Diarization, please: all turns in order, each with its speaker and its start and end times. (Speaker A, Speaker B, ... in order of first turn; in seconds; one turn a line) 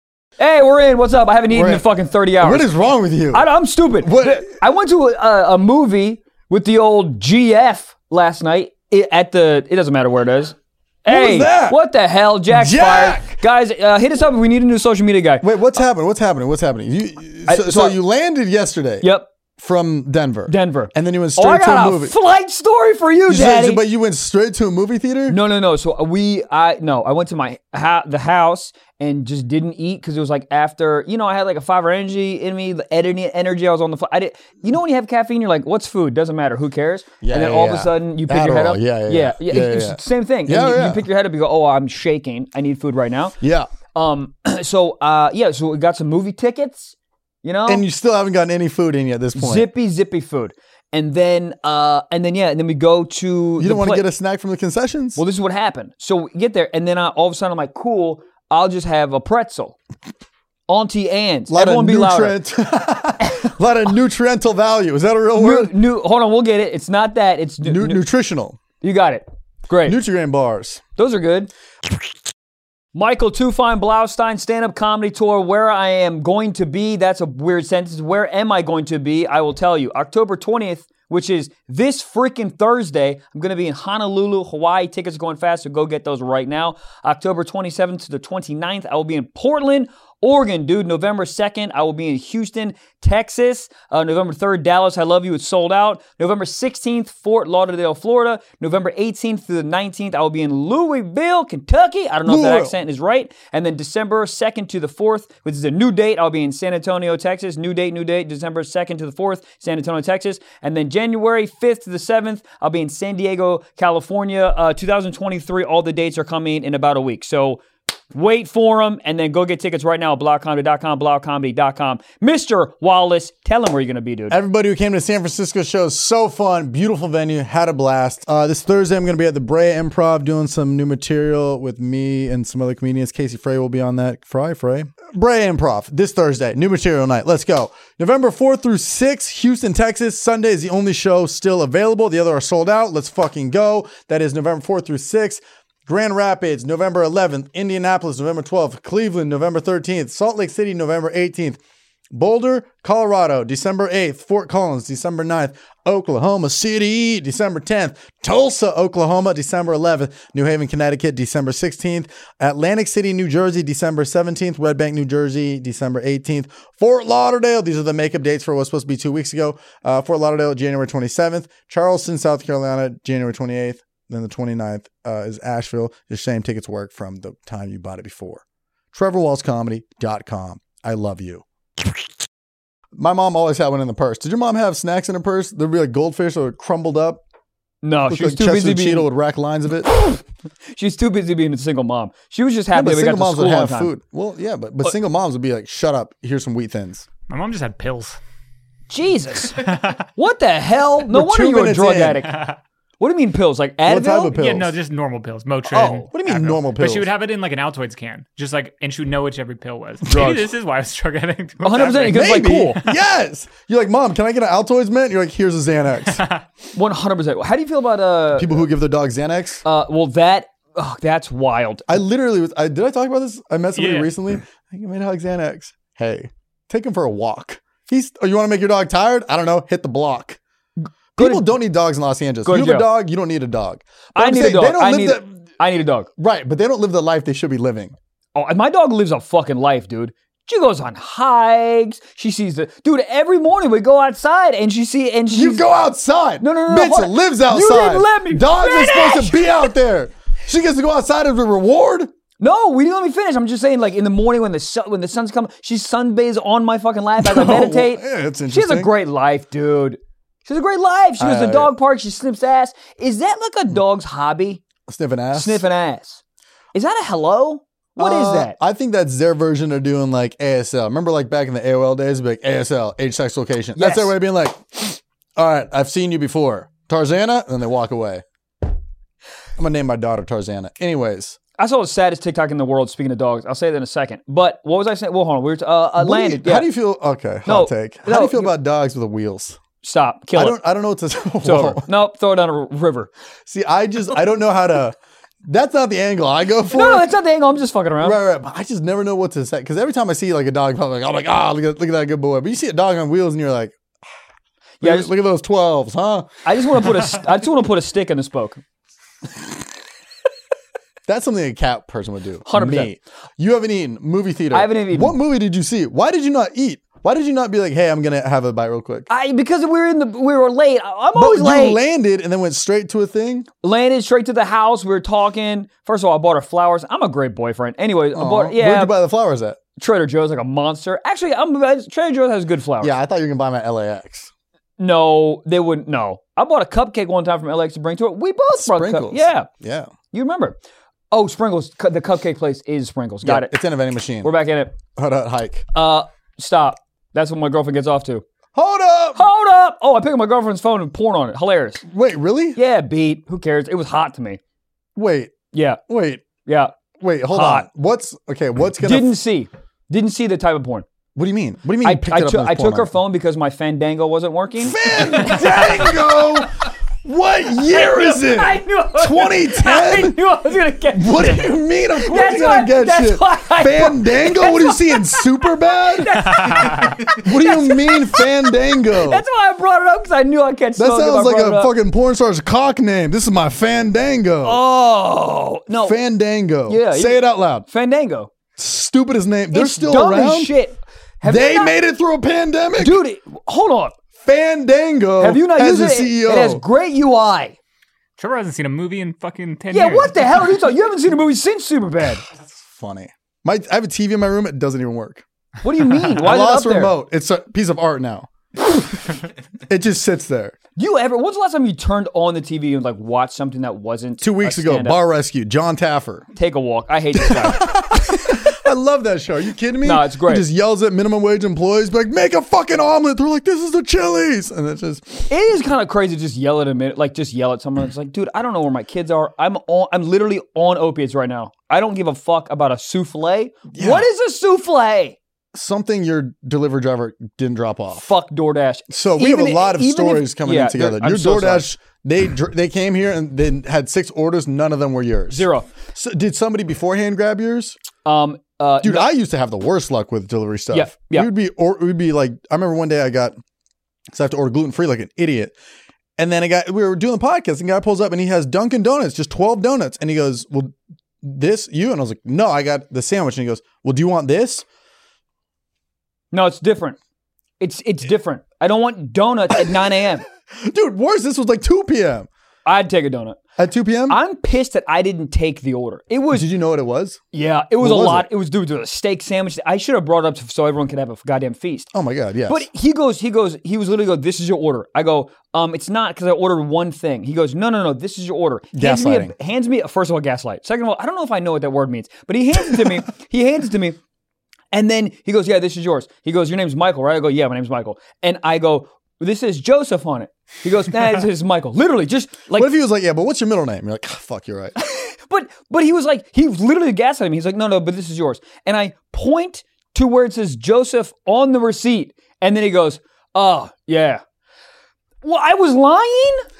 Speaker A: 0.4-2.7
Speaker B: 1.5-1.9
Speaker B: 2.4-3.5
Speaker A: 3.3-15.5
Speaker B: 4.0-4.5
Speaker B: 11.1-11.8
Speaker B: 12.5-13.4
Speaker B: 15.4-22.1
Speaker A: 17.5-18.0
Speaker A: 19.0-19.3
Speaker A: 20.5-23.8
Speaker B: 23.3-25.4
Speaker A: 25.3-43.4
Speaker B: 37.2-41.0
Speaker B: 43.4-43.7
Speaker A: 43.9-47.9
Speaker B: 47.7-49.7
Speaker A: 49.3-54.0
Speaker B: 53.6-55.2
Speaker A: 55.2-59.8
Speaker A: 60.7-62.4
Speaker B: 61.5-65.7
Speaker A: 65.4-68.0
Speaker B: 67.6-68.6
Speaker A: 68.8-70.0
Speaker B: 69.8-70.8
Speaker A: 71.0-71.5
Speaker A: 72.9-124.4
Speaker B: 102.2-102.8
Speaker B: 124.3-151.6
Speaker B: 152.1-181.4
Speaker B: 182.9-187.2
Speaker A: 187.8-189.1
Speaker B: 188.1-189.9
Speaker A: 190.0-193.9
Speaker B: 192.7-197.1
Speaker C: 197.3-198.2
Speaker A: 198.9-199.6
Speaker C: 199.4-200.1
Speaker A: 200.2-202.3
Speaker B: 201.1-202.2
Speaker C: 202.2-202.6
Speaker A: 203.0-204.4
Speaker B: 203.8-204.7
Speaker C: 204.3-212.6
Speaker A: 205.7-206.1
Speaker B: 206.1-207.1
Speaker B: 210.0-210.5
Speaker A: 211.6-212.8
Speaker B: 212.0-216.2
Speaker C: 216.1-216.4
Speaker A: 216.7-218.7
Speaker B: 218.3-219.6
Speaker A: 219.6-222.0
Speaker B: 221.9-230.4
Speaker C: 223.7-224.1
Speaker A: 230.8-231.5
Speaker B: 231.2-235.4
Speaker A: 232.4-232.9
Speaker A: 234.1-236.1
Speaker B: 236.2-237.9
Speaker A: 238.3-245.6
Speaker B: 245.3-252.1
Speaker A: 246.4-249.7
Speaker A: 252.4-264.6
Speaker B: 257.2-258.9
Speaker B: 261.2-261.7
Speaker B: 264.9-265.6
Speaker A: 265.3-266.2
Speaker A: 266.7-268.6
Speaker B: 268.0-278.2
Speaker A: 273.8-274.1
Speaker B: 279.6-281.4
Speaker A: 281.6-286.7
Speaker B: 286.0-289.6
Speaker A: 287.4-288.5
Speaker A: 289.8-290.6
Speaker B: 290.3-291.9
Speaker A: 291.4-293.1
Speaker B: 293.5-297.1
Speaker A: 296.7-298.2
Speaker B: 298.0-303.8
Speaker B: 304.8-306.3
Speaker A: 304.8-305.1
Speaker A: 306.4-308.6
Speaker B: 311.1-319.1
Speaker A: 312.5-312.9
Speaker A: 314.5-315.2
Speaker A: 319.1-321.8
Speaker B: 321.1-323.5
Speaker A: 323.6-328.9
Speaker B: 328.1-329.6
Speaker A: 329.8-332.9
Speaker B: 332.8-334.3
Speaker A: 334.8-339.5
Speaker B: 338.5-339.9
Speaker A: 340.1-340.6
Speaker A: 341.1-343.5
Speaker B: 343.2-344.3
Speaker A: 344.2-344.8
Speaker B: 344.9-345.6
Speaker A: 345.7-348.2
Speaker B: 348.5-349.2
Speaker A: 349.1-351.8
Speaker B: 351.8-352.6
Speaker A: 352.6-354.4
Speaker B: 354.9-355.3
Speaker A: 355.5-355.8
Speaker B: 355.9-356.3
Speaker A: 356.4-356.7
Speaker B: 357.0-359.1
Speaker A: 357.3-357.7
Speaker A: 358.8-360.9
Speaker B: 361.1-362.9
Speaker A: 361.8-366.4
Speaker B: 364.6-366.5
Speaker B: 367.0-370.2
Speaker A: 367.5-375.3
Speaker B: 370.9-379.2
Speaker A: 375.9-381.7
Speaker C: 376.6-376.9
Speaker B: 380.8-384.6
Speaker A: 384.4-386.0
Speaker B: 385.8-387.6
Speaker A: 386.7-388.3
Speaker B: 388.6-390.5
Speaker A: 389.5-391.8
Speaker B: 391.2-393.0
Speaker A: 392.8-393.9
Speaker B: 394.2-396.6
Speaker A: 395.2-397.6
Speaker C: 398.2-400.4
Speaker A: 399.7-402.2
Speaker B: 402.4-405.2
Speaker A: 405.6-406.9
Speaker B: 406.1-410.5
Speaker A: 410.8-415.0
Speaker B: 414.2-416.3
Speaker A: 416.4-418.3
Speaker B: 417.1-425.3
Speaker A: 419.8-420.4
Speaker A: 425.3-435.2
Speaker B: 433.7-434.1
Speaker B: 435.5-438.1
Speaker A: 437.9-441.7
Speaker B: 438.9-447.8
Speaker A: 445.3-445.7
Speaker A: 448.0-449.1
Speaker B: 448.8-453.4
Speaker A: 450.7-451.3
Speaker B: 454.1-455.5
Speaker B: 456.2-464.6
Speaker A: 466.3-467.0
Speaker A: 467.6-470.2
Speaker B: 470.5-472.3
Speaker A: 472.6-473.4
Speaker B: 473.6-474.2
Speaker A: 474.1-476.5
Speaker B: 476.3-477.2
Speaker A: 477.3-481.9
Speaker B: 477.8-478.3
Speaker B: 481.9-482.7
Speaker A: 482.5-494.0
Speaker B: 488.7-489.3
Speaker A: 494.7-502.7
Speaker B: 502.5-504.8
Speaker A: 504.8-514.2
Speaker A: 515.2-516.4